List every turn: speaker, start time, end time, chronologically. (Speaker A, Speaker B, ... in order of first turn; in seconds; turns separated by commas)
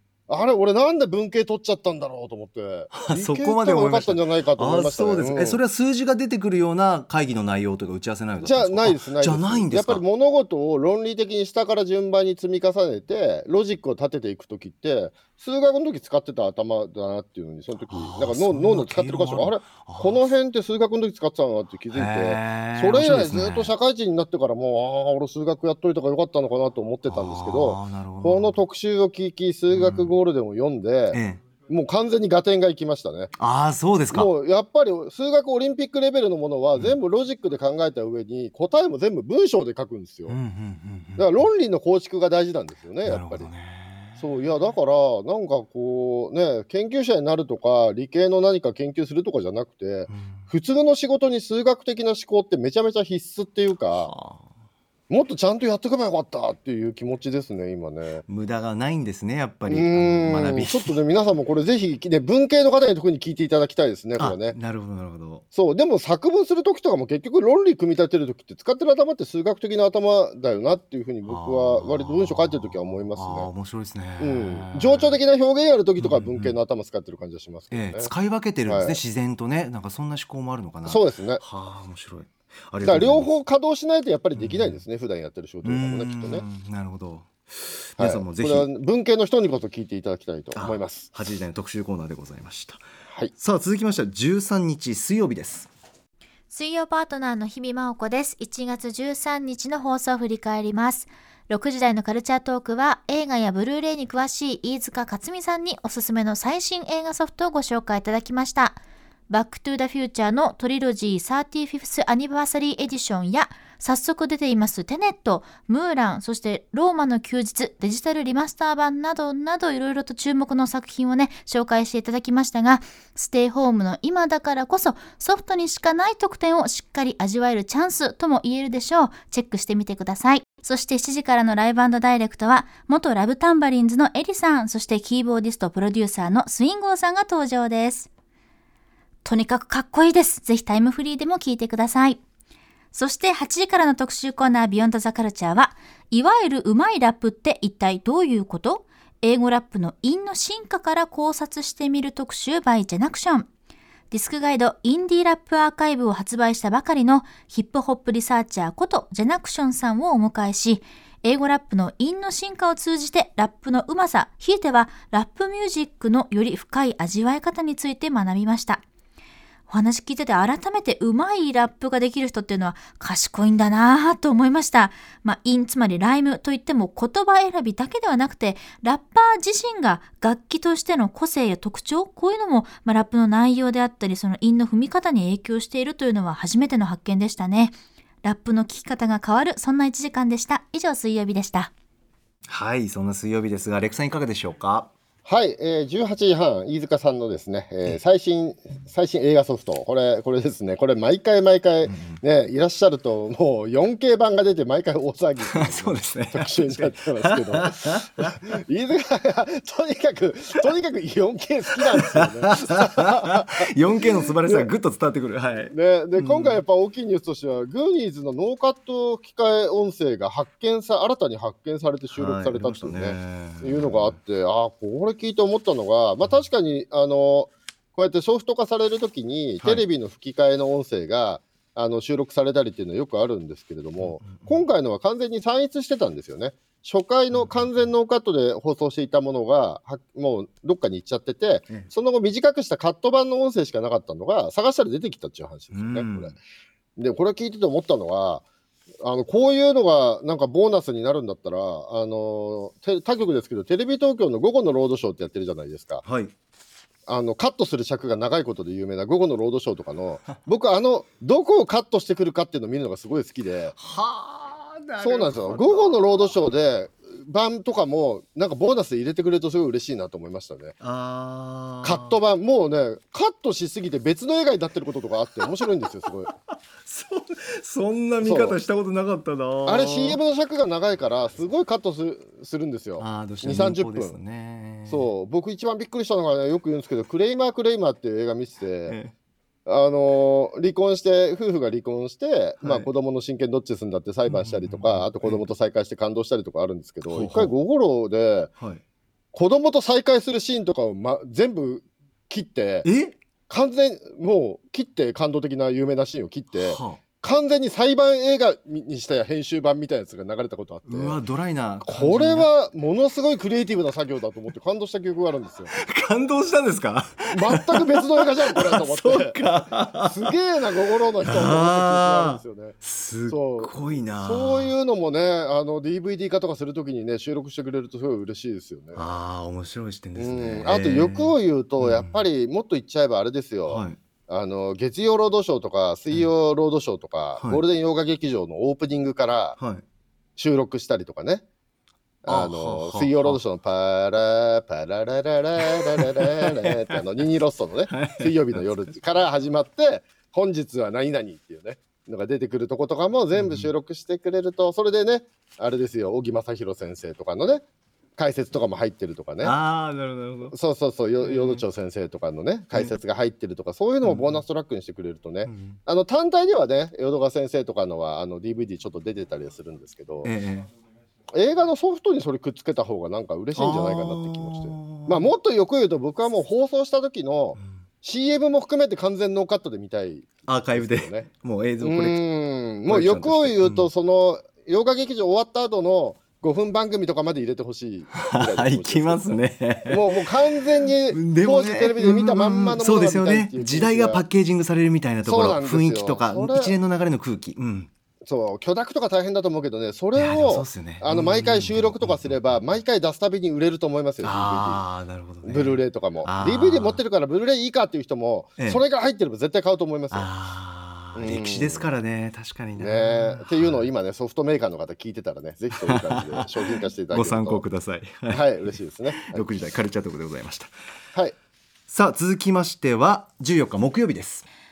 Speaker A: 0.3-5.6, Speaker B: 2.9-10.0, Speaker A: 8.4-33.3, Speaker B: 17.8-20.3, Speaker B: 21.9-23.7, Speaker B: 27.1-28.6, Speaker B: 29.7-30.1, Speaker B: 31.1-31.4, Speaker B: 33.4-34.3, Speaker A: 34.1-40.4, Speaker B: 40.3-41.4, Speaker A: 41.2-43.5, Speaker B: 43.0-44.2, Speaker A: 44.2-54.1, Speaker B: 50.1-50.5, Speaker B: 53.9-54.5, Speaker A: 55.1-58.2, Speaker B: 58.3-61.0, Speaker A: 59.7-64.6, Speaker B: 64.2-65.4, Speaker A: 65.5-73.5, Speaker B: 71.2-75.2, Speaker A: 74.2-78.1, Speaker B: 76.0-76.5, Speaker B: 77.7-83.3, Speaker A: 78.7-79.0, Speaker A: 80.8-81.4, Speaker A: 82.8-86.4, Speaker B: 84.3-84.8, Speaker B: 85.6-88.7, Speaker A: 88.0-91.1, Speaker B: 90.5-92.8, Speaker B: 93.4-95.7, Speaker C: 96.5-138.1, Speaker C: 139.2-142.2, Speaker C: 142.9-153.4, Speaker C: 154.1-168.8, Speaker C: 169.7-191.7, Speaker B: 192.5-194.9, Speaker A: 195.2-213.7, Speaker B: 201.9-202.2, Speaker B: 205.5-208.3, Speaker B: 212.1-216.6, Speaker A: 214.4-214.7, Speaker A: 215.7-246.4, Speaker B: 222.1-224.2, Speaker B: 234.0-234.6, Speaker B: 237.3-237.9, Speaker B: 245.7-246.4, Speaker A: 247.0-248.4, Speaker A: 249.0-256.0, Speaker B: 256.0-256.3, Speaker A: 257.1-263.7, Speaker B: 263.8-266.3, Speaker A: 265.0-270.7, Speaker B: 270.8-272.2, Speaker A: 271.8-276.3, Speaker B: 276.2-280.2, Speaker A: 278.2-278.6, Speaker A: 279.6-284.2, Speaker B: 283.0-285.1, Speaker A: 284.9-289.0, Speaker B: 288.9-289.1, Speaker A: 289.6-298.5, Speaker B: 292.6-292.9, Speaker B: 294.2-295.4, Speaker B: 297.1-297.5, Speaker A: 299.3-302.9, Speaker B: 302.8-303.2, Speaker A: 303.5-311.2, Speaker B: 306.5-307.0, Speaker B: 310.9-312.5, Speaker A: 311.8-315.7, Speaker B: 315.7-320.2, Speaker A: 317.3-322.8, Speaker B: 321.2-324.7, Speaker A: 323.3-329.0, Speaker B: 328.9-332.2, Speaker A: 330.2-339.6, Speaker B: 333.7-334.0, Speaker B: 339.6-339.8, Speaker A: 340.4-341.4, Speaker A: 342.2-357.6, Speaker B: 342.2-343.4, Speaker B: 346.0-346.9, Speaker B: 347.9-348.7, Speaker B: 353.3-353.7, Speaker A: 358.2-359.5, Speaker B: 359.4-360.5, Speaker A: 360.5-370.3, Speaker B: 361.2-361.6, Speaker B: 364.0-364.4, Speaker B: 365.4-365.8, Speaker B: 370.2-370.7, Speaker A: 371.3-381.3, Speaker B: 373.5-375.3, Speaker B: 380.5-382.2, Speaker A: 381.8-389.2, Speaker B: 382.9-383.9, Speaker B: 388.1-390.3, Speaker A: 389.9-394.2, Speaker B: 391.1-397.9, Speaker A: 395.2-396.7, Speaker A: 398.2-404.8, Speaker B: 400.1-402.6, Speaker B: 404.2-407.0, Speaker A: 405.4-410.3, Speaker B: 410.1-413.9, Speaker A: 411.1-411.9, Speaker A: 412.8-417.6, Speaker B: 415.9-420.7, Speaker A: 418.3-419.4, Speaker B: 421.9-424.4